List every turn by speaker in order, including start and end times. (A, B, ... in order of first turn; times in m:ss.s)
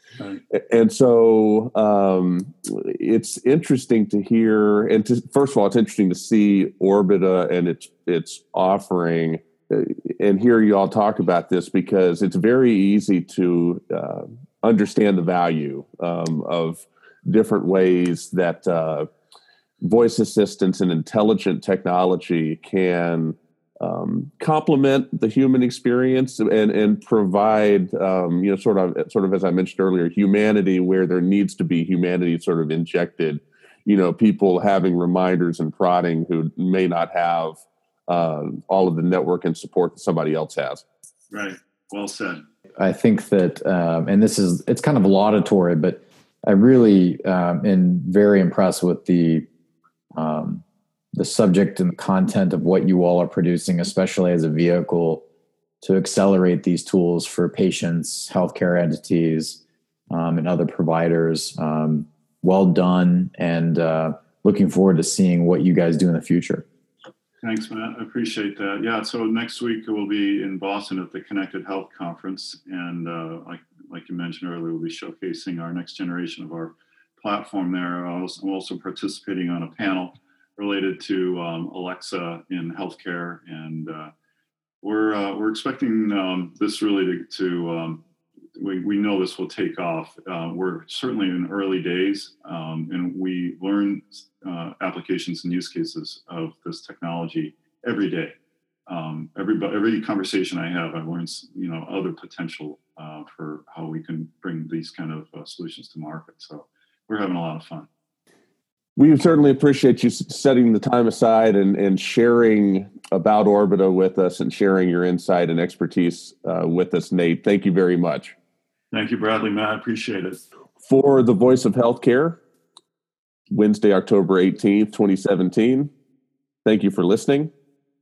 0:00.5-0:19.1 A
0:19.8-0:40.8 A
0:41.3-0:42.4 B
0:42.8-0:49.5 C
0:50.1-0:55.2 C
0:55.8-1:06.7 C
1:07.4-1:24.1 B
1:24.8-1:28.0 B
1:28.6-1:38.4 B
1:38.9-1:47.9 B
1:49.0-1:58.4 A
1:58.9-2:00.4 B
2:00.8-2:02.4 A
2:03.5-2:05.9 A
2:06.6-2:07.5 A